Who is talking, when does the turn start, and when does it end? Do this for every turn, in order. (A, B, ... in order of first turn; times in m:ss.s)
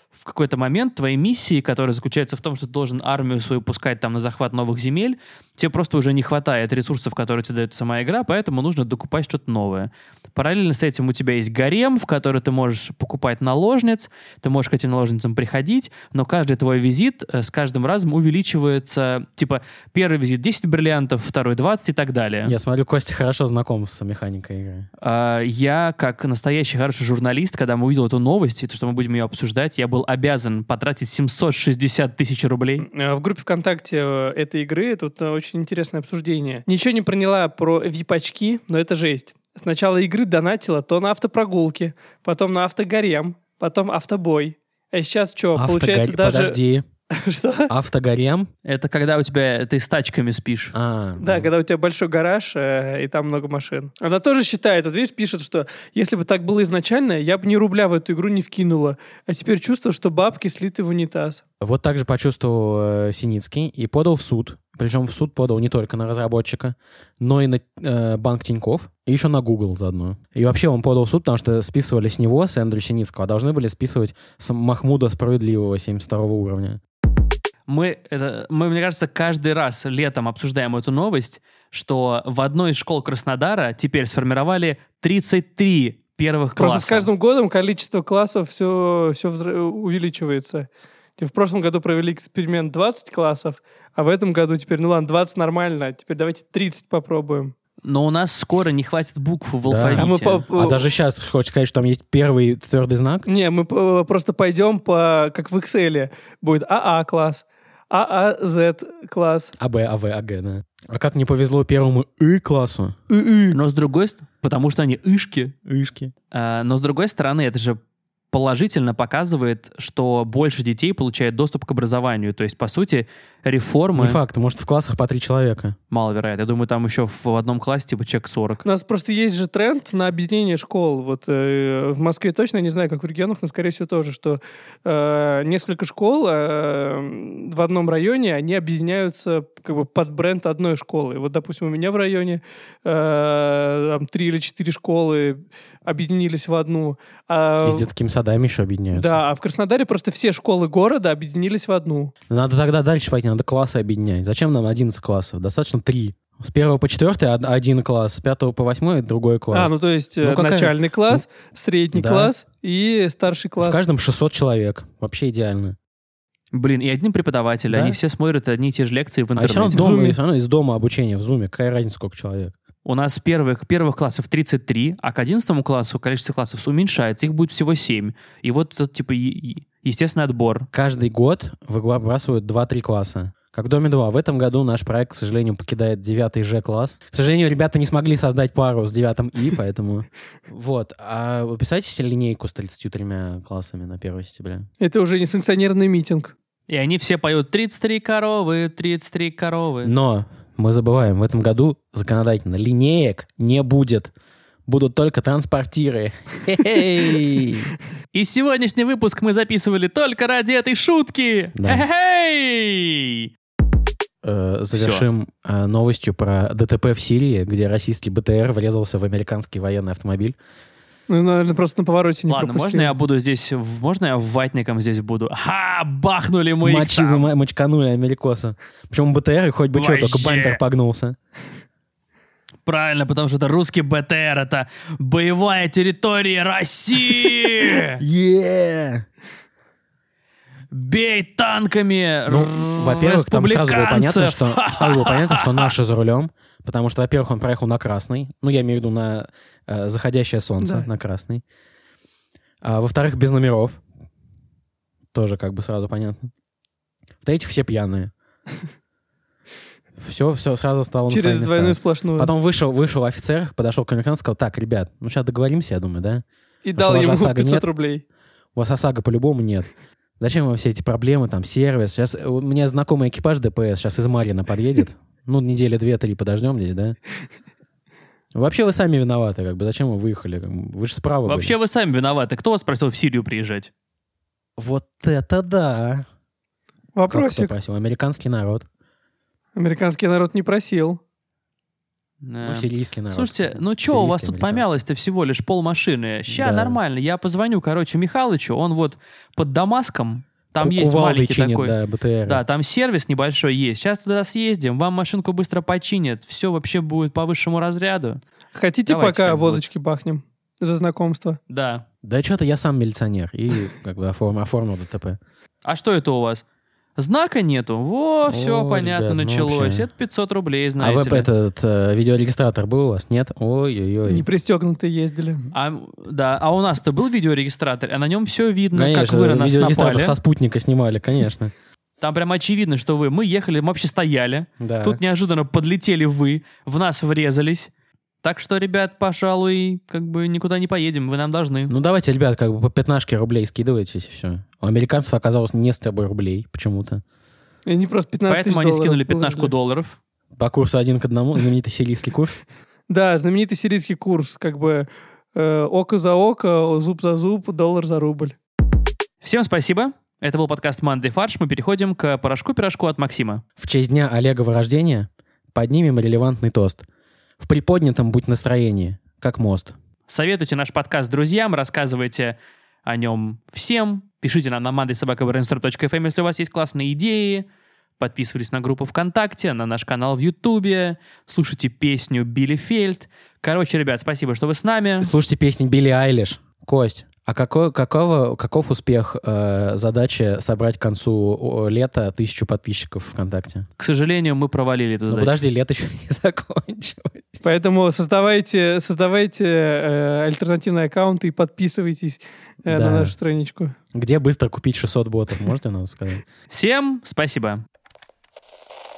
0:00.2-0:22.6 A
0:22.4-0:24.9 B
0:25.0-0:32.8 A
0:32.8-0:46.6 C
0:45.5-0:46.8 B
0:47.1-0:47.7 C
0:47.7-0:48.5 B
0:48.6-0:50.7 A
0:50.7-0:51.5 B
0:51.2-1:01.4 C
1:01.6-1:16.8 B
1:17.7-1:27.1 A
1:26.6-1:37.5 C
1:37.8-1:40.4 A
1:39.6-1:43.3 B
1:40.0-1:40.8 C
1:43.2-1:49.5 C
1:49.6-1:52.9 B
1:53.1-1:53.6 C
1:53.5-1:55.5 A
1:55.7-1:56.1 B
1:56.3-1:57.8 A
1:58.3-2:04.2 A
2:03.9-2:05.8 B
2:05.9-2:08.6 A
2:08.6-2:27.9 C
2:27.6-2:29.2 B
2:28.9-2:32.1 C
2:32.3-2:41.2 B
2:39.5-2:43.8 C
2:41.9-2:42.3 B
2:43.6-2:45.8 B
2:46.5-2:49.8 A
2:47.7-2:48.0 B
2:49.4-2:52.5 B
2:49.7-2:50.2 C
2:52.8-3:00.7 A
3:00.7-3:14.7 B
3:14.8-3:16.3 C
3:16.7-3:19.9 A
3:19.8-3:24.1 B
3:24.6-3:27.7 B
3:28.1-3:33.3 A
3:31.6-3:31.8 B
3:34.2-3:40.4 B
3:34.7-3:35.0 A
3:41.1-3:42.9 C
3:42.3-3:47.3 A
3:46.6-3:51.2 B
3:49.7-3:50.6 A
3:52.6-3:58.0 A
3:57.8-3:59.0 B
4:00.7-4:05.7 A
4:02.3-4:11.4 B
4:10.6-4:10.8 C
4:12.6-4:13.8 B
4:15.1-4:16.3 B
4:17.2-4:18.1 B
4:20.0-4:26.2 B
4:21.1-4:22.3 C
4:26.6-4:28.0 C
4:26.8-4:27.7 B
4:28.6-4:37.0 B
4:38.3-4:41.5 B
4:41.3-4:43.7 A
4:44.6-4:46.0 B
4:47.0-4:47.5 C
4:47.1-4:48.6 B
4:49.6-4:51.0 C
4:52.2-5:08.2 A
4:52.4-4:54.7 B
4:56.3-4:56.8 B
5:00.6-5:02.4 B
5:08.5-5:11.4 C
5:08.9-5:09.6 A
5:11.5-5:11.8 A
5:12.0-5:15.2 B
5:15.6-5:16.4 A
5:17.0-5:21.3 A
5:18.3-5:19.9 B
5:20.8-5:24.2 B
5:24.1-5:25.5 C
5:25.5-5:30.2 A
5:28.7-5:31.5 B
5:32.0-5:37.7 A
5:34.6-5:35.0 B
5:38.2-5:41.7 A
5:41.7-5:47.0 B
5:47.6-5:49.5 C
5:48.3-5:50.0 A
5:50.4-5:52.4 B
5:52.9-5:58.4 C
5:59.2-6:03.4 A
6:03.6-6:06.8 B
6:07.4-6:09.7 B
6:10.1-6:17.4 A
6:18.0-6:25.1 A
6:25.0-6:33.6 B
6:33.8-6:35.4 A
6:35.1-6:37.4 B
6:37.4-6:43.7 C
6:42.7-6:43.1 B
6:43.9-6:46.2 B
6:46.5-6:47.6 A